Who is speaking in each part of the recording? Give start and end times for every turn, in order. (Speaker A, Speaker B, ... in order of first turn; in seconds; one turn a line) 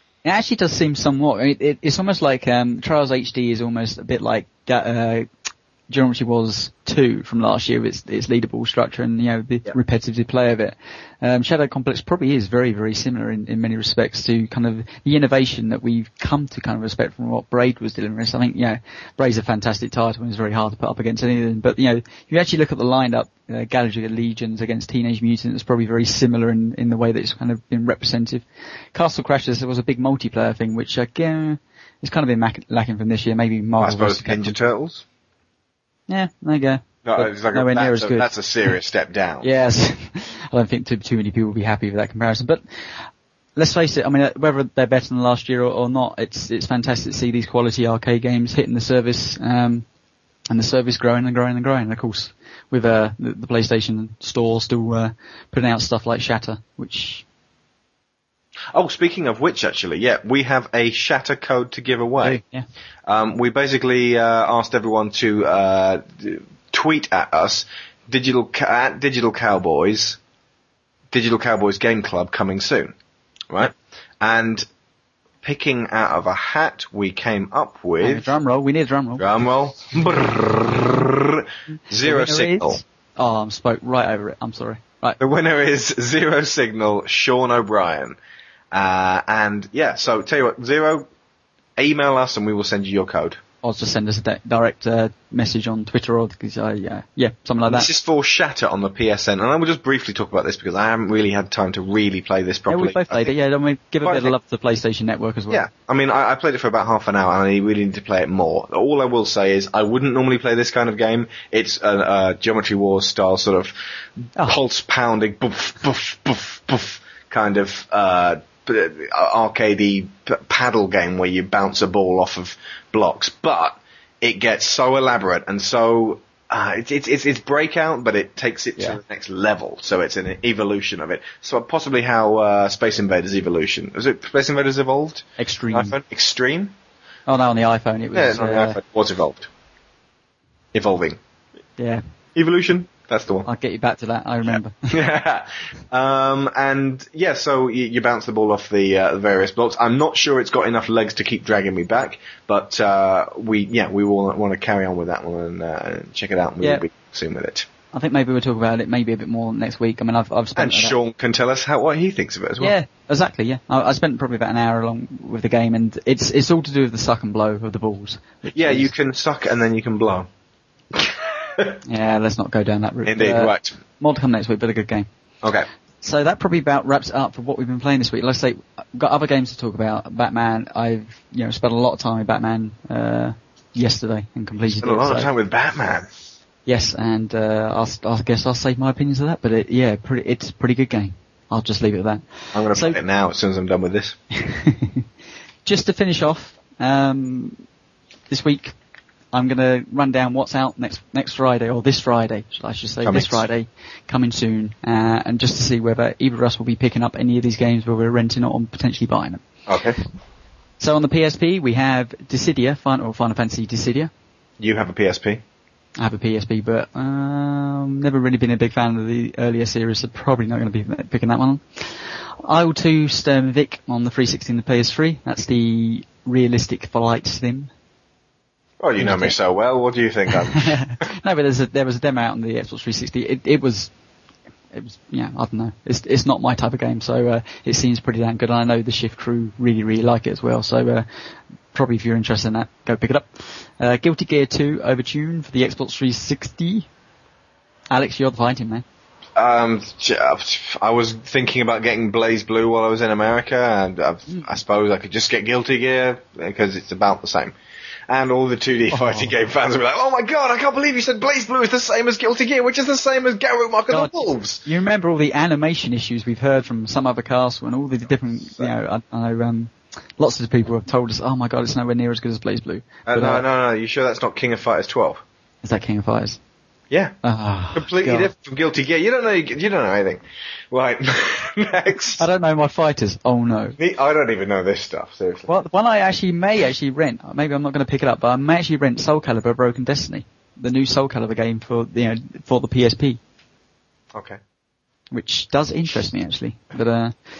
Speaker A: 0.2-5.3
Speaker A: 5.9-34.5
Speaker B: 33.8-35.0
Speaker A: 36.1-38.3
Speaker B: 37.0-39.5
Speaker A: 39.4-42.6
Speaker A: 43.6-49.9
Speaker A: 50.5-57.2
Speaker B: 58.7-62.4
Speaker A: 62.2-62.6
Speaker B: 63.1-70.2
Speaker B: 71.1-72.9
Speaker B: 73.5-74.7
Speaker B: 75.4-78.3
Speaker A: 78.0-79.2
Speaker B: 79.2-82.8
Speaker A: 82.0-85.2
Speaker B: 85.2-88.2
Speaker B: 88.7-91.1
Speaker B: 91.8-93.4
Speaker A: 93.6-97.9
Speaker B: 97.7-103.3
Speaker A: 102.7-105.7
Speaker B: 104.0-104.3
Speaker B: 105.5-113.7
Speaker B: 114.4-136.8
Speaker A: 135.4-136.0
Speaker A: 137.3-138.8
Speaker B: 138.1-139.5
Speaker B: 140.7-141.2
Speaker B: 142.3-143.5
Speaker A: 143.5-144.9
Speaker B: 144.4-157.7
Speaker A: 157.9-160.9
Speaker B: 160.6-162.8
Speaker A: 162.6-168.9
Speaker B: 168.5-170.3
Speaker B: 170.9-171.8
Speaker A: 171.9-175.1
Speaker B: 173.1-173.8
Speaker A: 176.0-185.3
Speaker B: 184.7-186.1
Speaker A: 186.7-193.0
Speaker B: 192.5-194.2
Speaker A: 194.4-195.1
Speaker A: 195.7-197.6
Speaker A: 198.3-198.7
Speaker A: 199.3-209.4
Speaker B: 203.0-203.4
Speaker B: 209.7-210.0
Speaker A: 210.8-214.1
Speaker B: 214.6-215.4
Speaker A: 216.0-227.7
Speaker B: 228.8-230.8
Speaker A: 229.0-229.3
Speaker A: 230.5-233.9
Speaker A: 234.7-241.1
Speaker A: 241.7-246.9
Speaker A: 247.9-248.8
Speaker B: 249.4-257.5
Speaker B: 258.1-264.6
Speaker A: 258.9-259.3
Speaker A: 263.9-273.4
Speaker B: 273.1-275.2
Speaker A: 275.6-276.4
Speaker A: 277.2-278.3
Speaker B: 277.7-282.2
Speaker A: 282.2-283.8
Speaker B: 283.8-285.5
Speaker A: 285.5-293.2
Speaker B: 294.1-294.4
Speaker A: 295.1-297.1